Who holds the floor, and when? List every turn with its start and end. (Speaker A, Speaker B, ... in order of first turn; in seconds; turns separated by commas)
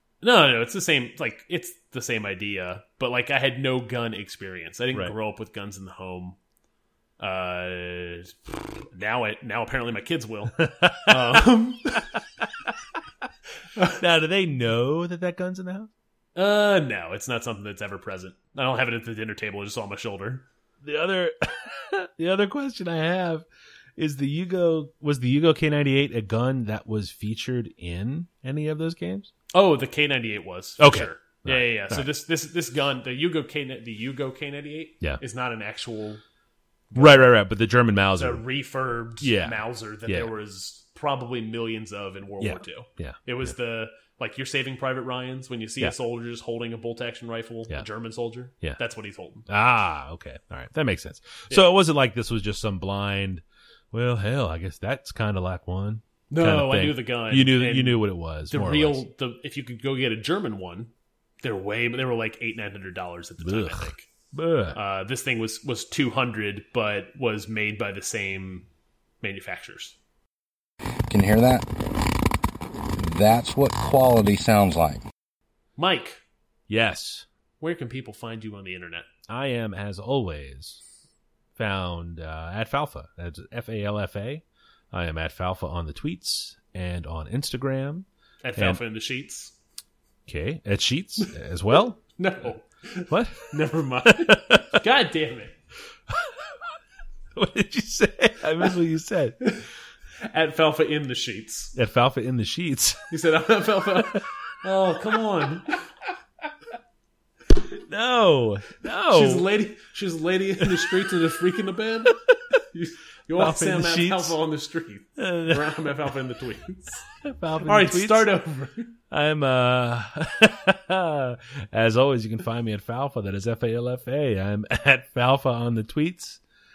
Speaker A: 0.2-6.4, Speaker A: 7.2-12.1, Speaker B: 10.6-12.7, Speaker B: 13.8-15.9, Speaker A: 16.3-20.5, Speaker B: 20.8-23.4, Speaker B: 24.0-29.3, Speaker A: 29.5-36.2, Speaker B: 30.8-32.1, Speaker A: 36.9-37.3, Speaker B: 37.0-38.4, Speaker A: 38.2-49.5, Speaker B: 39.2-40.3, Speaker B: 42.4-43.5, Speaker B: 49.5-59.0, Speaker A: 56.3-64.1, Speaker B: 63.4-64.8, Speaker A: 64.7-68.7, Speaker A: 69.2-70.0, Speaker C: 71.1-72.3, Speaker C: 72.9-75.0, Speaker A: 75.8-76.2, Speaker B: 76.7-77.2, Speaker A: 77.6-79.0, Speaker B: 79.3-80.8, Speaker B: 81.5-88.8, Speaker A: 88.4-89.5, Speaker B: 90.3-92.0, Speaker A: 92.2-95.5, Speaker B: 93.1-94.8, Speaker B: 96.1-96.8, Speaker B: 97.3-99.4, Speaker A: 100.2-101.7, Speaker B: 101.7-103.1, Speaker A: 103.1-105.8, Speaker B: 104.0-104.2, Speaker B: 107.5-109.5, Speaker A: 109.1-112.2, Speaker B: 110.6-110.9, Speaker B: 112.2-112.6, Speaker A: 112.7-117.0, Speaker B: 113.3-114.4, Speaker B: 115.2-115.9, Speaker B: 117.2-118.3, Speaker A: 117.6-118.9, Speaker B: 119.1-126.4